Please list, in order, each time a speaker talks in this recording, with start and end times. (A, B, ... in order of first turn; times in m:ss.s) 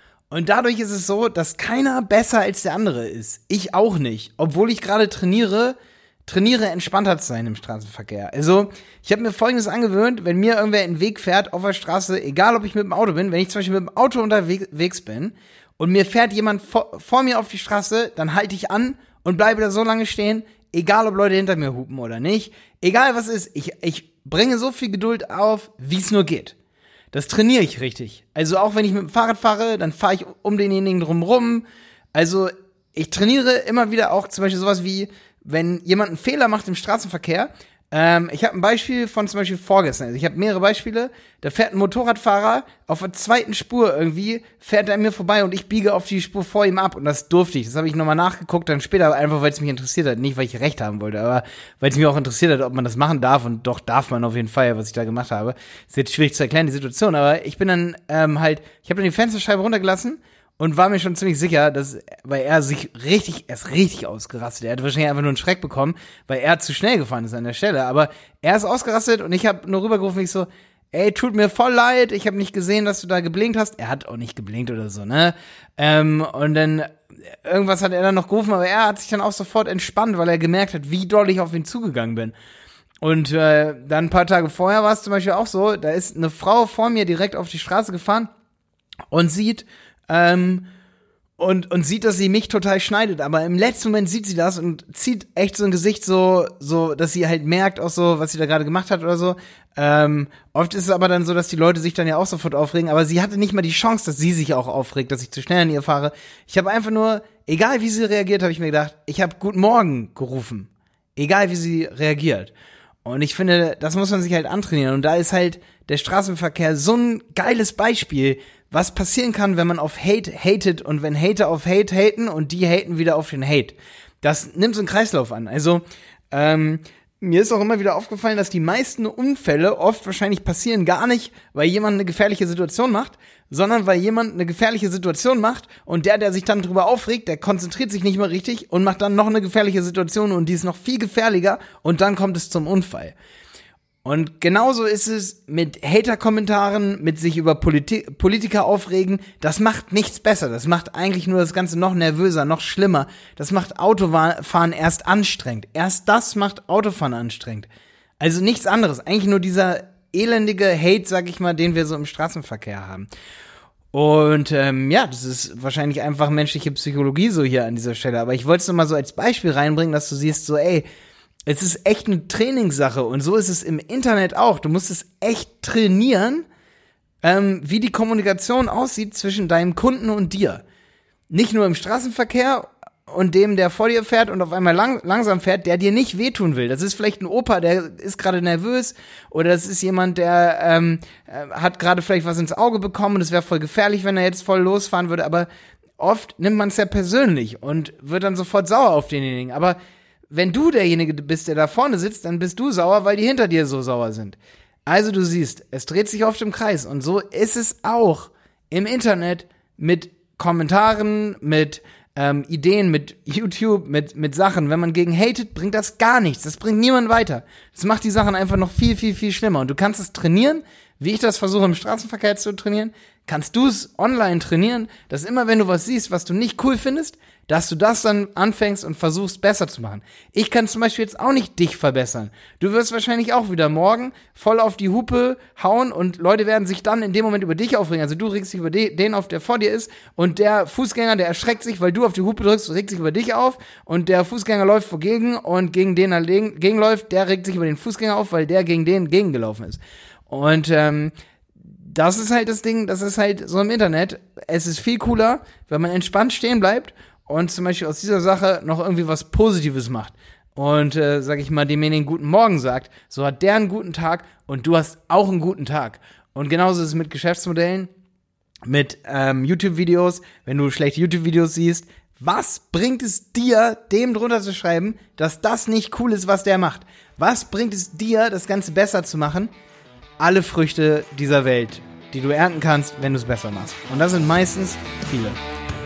0:00.3-0:26.6 A
0:27.1-1:22.3 A
1:23.0-1:28.3 A
1:29.1-1:30.7 A
1:31.4-1:52.5 A
1:53.0-2:23.2 A
2:24.0-2:37.7 A
2:38.2-2:43.1 A
2:43.9-2:50.8 A
2:51.5-2:56.4 A
2:57.2-3:00.6 A
3:01.3-3:15.5 A
3:16.0-3:19.8 A
3:20.3-4:11.1 A
4:11.7-4:27.9 A
4:28.6-4:39.5 A
4:40.2-4:45.4 A